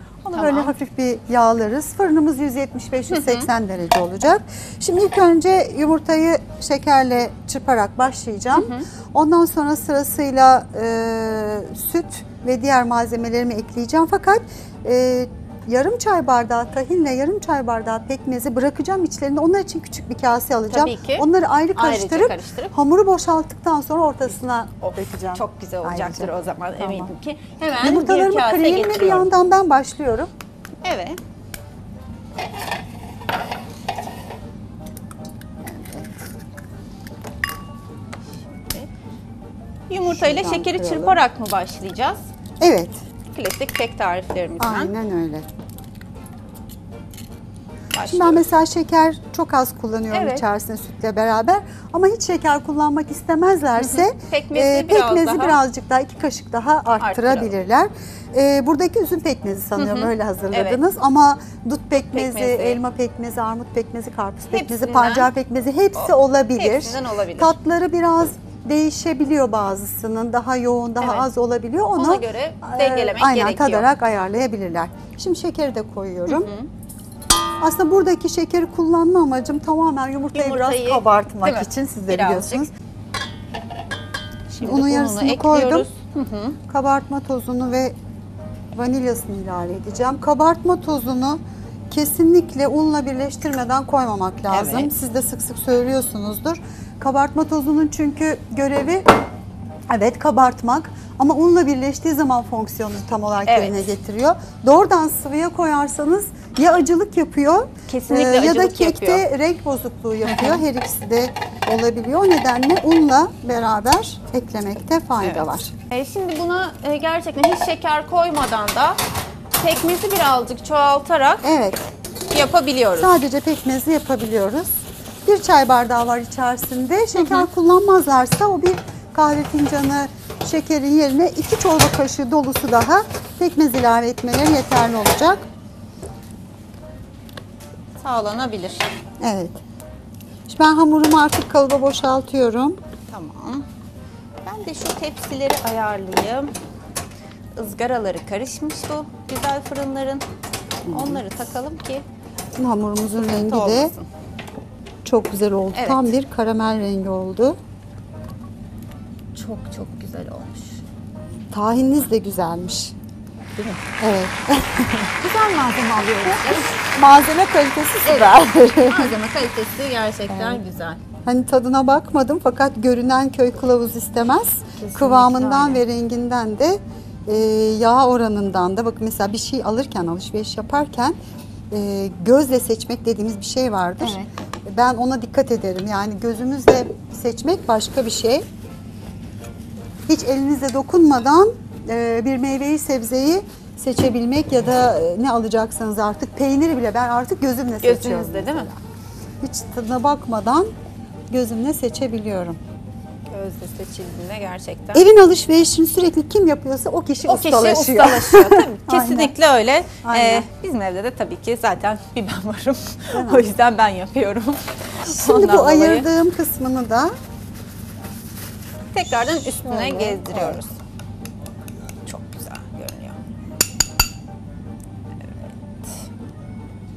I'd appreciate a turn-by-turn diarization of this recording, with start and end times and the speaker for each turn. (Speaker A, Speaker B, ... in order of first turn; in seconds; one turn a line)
Speaker A: 0.2-27.1
Speaker B: 0.3-0.7
Speaker B: 3.1-3.5
Speaker B: 8.5-8.9
Speaker B: 20.7-22.7
Speaker B: 24.8-29.3
Speaker A: 27.8-30.3
Speaker B: 30.8-31.2
Speaker A: 35.6-36.1
Speaker B: 38.5-38.9
Speaker B: 39.9-42.2
Speaker A: 40.0-41.2
Speaker A: 42.6-43.0
Speaker B: 43.3-44.9
Speaker A: 44.6-45.5
Speaker B: 47.9-48.4
Speaker A: 48.0-76.5
Speaker B: 50.1-50.4
Speaker B: 53.8-55.6
Speaker B: 57.0-57.5
Speaker B: 59.8-60.8
Speaker B: 62.0-62.8
Speaker B: 64.5-65.3
Speaker B: 65.9-67.5
Speaker B: 71.0-71.3
Speaker B: 71.9-73.9
Speaker B: 76.3-76.7
Speaker A: 77.6-82.7
Speaker B: 80.3-82.7
Speaker B: 84.5-86.6
Speaker A: 84.6-85.9
Speaker A: 86.7-88.0
Speaker A: 88.7-99.0
Speaker B: 94.5-94.9
Speaker A: 99.9-115.7
Speaker B: 103.5-103.8
Speaker B: 107.9-109.2
Speaker B: 110.2-110.6
Speaker B: 115.2-119.0
Speaker B: 119.6-121.5
Speaker A: 121.4-121.8
Speaker B: 122.3-123.1
Speaker A: 123.0-135.4
Speaker B: 127.2-127.5
Speaker B: 138.0-138.9
Speaker A: 139.2-139.6
Speaker A: 140.5-142.8
Speaker B: 143.1-143.6
Speaker B: 144.4-146.5
Speaker B: 147.6-150.2
Speaker A: 150.9-151.2
Speaker B: 150.9-152.0
Speaker A: 152.6-153.9
Speaker B: 153.3-154.1
Speaker A: 155.0-157.6
Speaker B: 155.7-156.1
Speaker B: 159.3-160.8
Speaker A: 161.5-162.9
Speaker A: 164.0-165.1
Speaker B: 165.2-166.8
Speaker A: 166.1-169.2
Speaker B: 168.0-171.0
Speaker A: 170.3-170.6
Speaker A: 171.2-181.2
Speaker B: 174.8-175.8
Speaker A: 181.7-188.4
Speaker B: 184.0-184.3
Speaker A: 190.1-198.8
Speaker B: 197.8-198.7
Speaker A: 199.4-200.7
Speaker A: 201.3-202.6
Speaker B: 203.3-205.1
Speaker A: 204.9-209.3
Speaker B: 207.2-216.1
Speaker A: 210.0-210.4
Speaker A: 213.1-213.5
Speaker A: 215.0-217.1
Speaker B: 218.9-220.7
Speaker A: 219.6-220.6
Speaker B: 222.1-223.2
Speaker B: 225.2-226.1